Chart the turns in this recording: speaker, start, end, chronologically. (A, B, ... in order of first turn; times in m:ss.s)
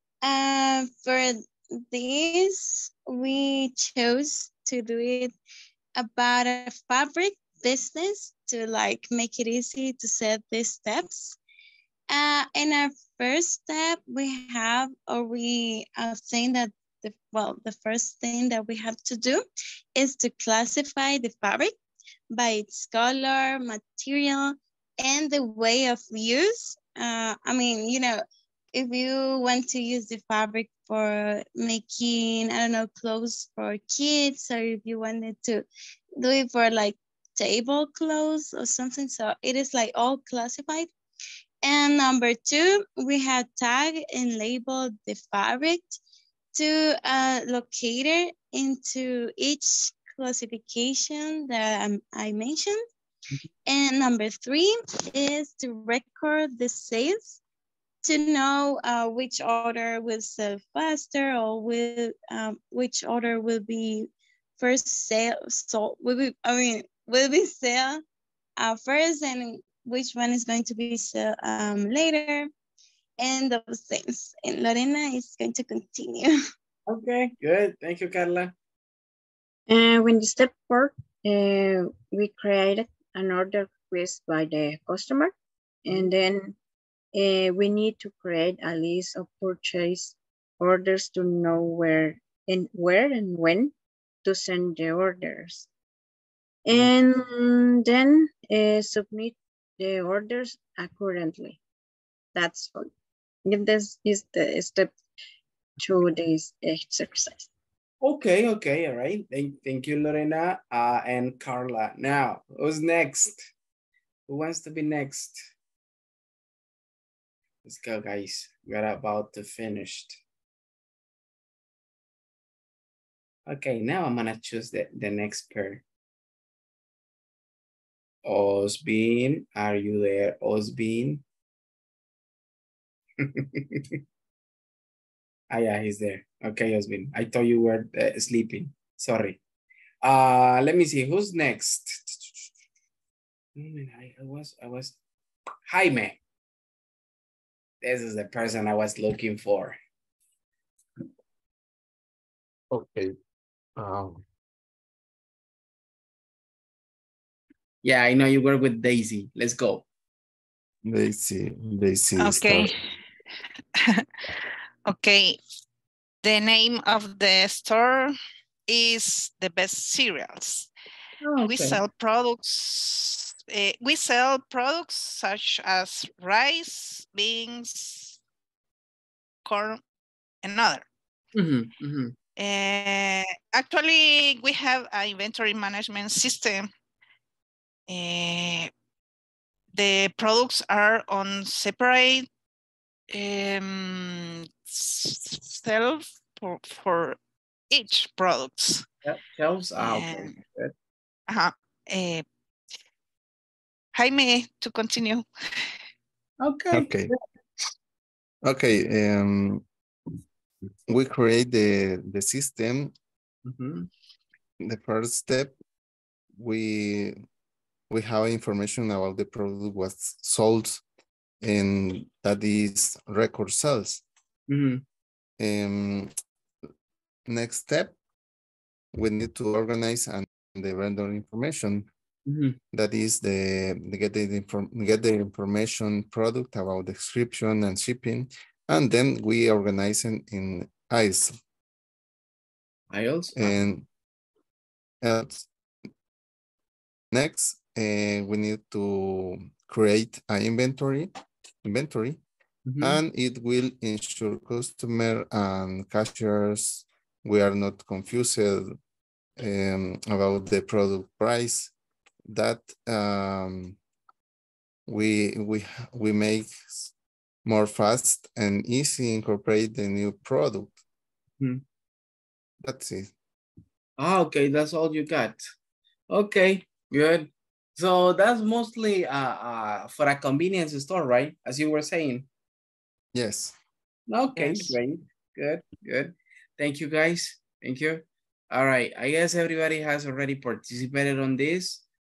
0:00.2-0:05.3 A
0:06.0-0:11.4 A
0:12.1-0:19.4 A
0:19.9-0:21.7 A
0:22.3-0:28.2 A
0:28.7-0:35.6 A
0:36.2-0:40.9 A
0:41.6-0:46.0 A
0:46.5-0:52.8 A
0:53.6-0:57.4 A
0:58.0-1:08.0 A
1:08.6-1:12.5 A
1:13.2-1:16.4 A
1:16.9-1:18.5 B
1:19.7-1:25.3 C
1:25.9-1:26.5 C
1:27.1-1:33.7 C
1:34.2-1:35.7 C
1:36.6-1:41.6 C
1:42.3-1:42.9 C
1:43.4-1:44.9 C
1:45.8-1:47.5 C
1:48.0-1:53.4 B
1:54.3-1:55.4 B
1:57.6-2:00.2 B
2:03.5-2:05.8 B
2:08.2-2:11.2 B
2:13.2-2:14.0 B
2:15.5-2:19.4 B
2:20.0-2:22.5 B
2:23.6-2:25.0 B
2:25.7-2:26.2 B
2:27.8-2:29.8 B
2:32.7-2:33.1 D
2:33.8-2:34.2 D
2:37.8-2:39.8 B
2:40.8-2:42.7 D
2:42.2-2:42.8 E
2:44.8-2:45.4 E
2:46.2-2:48.1 E
2:48.7-2:50.7 E
2:51.2-2:51.8 B
2:51.4-2:58.2 E
2:59.4-2:59.8 E
3:00.4-3:00.8 E
3:01.3-3:02.1 B
3:02.4-3:06.7 E
3:07.9-3:08.7 E
3:09.7-3:12.3 E
3:13.1-3:17.2 E
3:17.7-3:18.8 E
3:19.0-3:20.7 B
3:19.8-3:20.4 E
3:21.3-3:22.2 E
3:23.9-3:25.2 E
3:26.4-3:27.0 B
3:26.7-3:27.1 D
3:28.4-3:29.6 D
3:30.9-3:32.9 D
3:33.4-3:33.9 B
3:34.6-3:35.5 D
3:36.4-3:37.2 D
3:37.9-3:40.8 D
3:41.4-3:44.0 D
3:44.5-3:44.8 B
3:45.4-3:46.1 D
3:47.2-3:48.0 D
3:48.9-3:51.9 D
3:52.3-3:52.6 B
3:52.7-4:01.4 D
4:02.9-4:03.6 B
4:03.4-4:03.8 D
4:05.0-4:05.5 D
4:07.1-4:11.1 D
4:11.6-4:12.2 D
4:12.6-4:13.0 B
4:12.8-4:18.8 D
4:19.4-4:21.7 D
4:22.3-4:23.8 D
4:24.9-4:26.9 D
4:27.4-4:30.8 D
4:32.6-4:33.1 D
4:34.0-4:35.4 B
4:36.1-4:42.3 B
4:43.1-4:43.5 D
4:44.1-4:51.8 B
4:44.4-4:44.8 E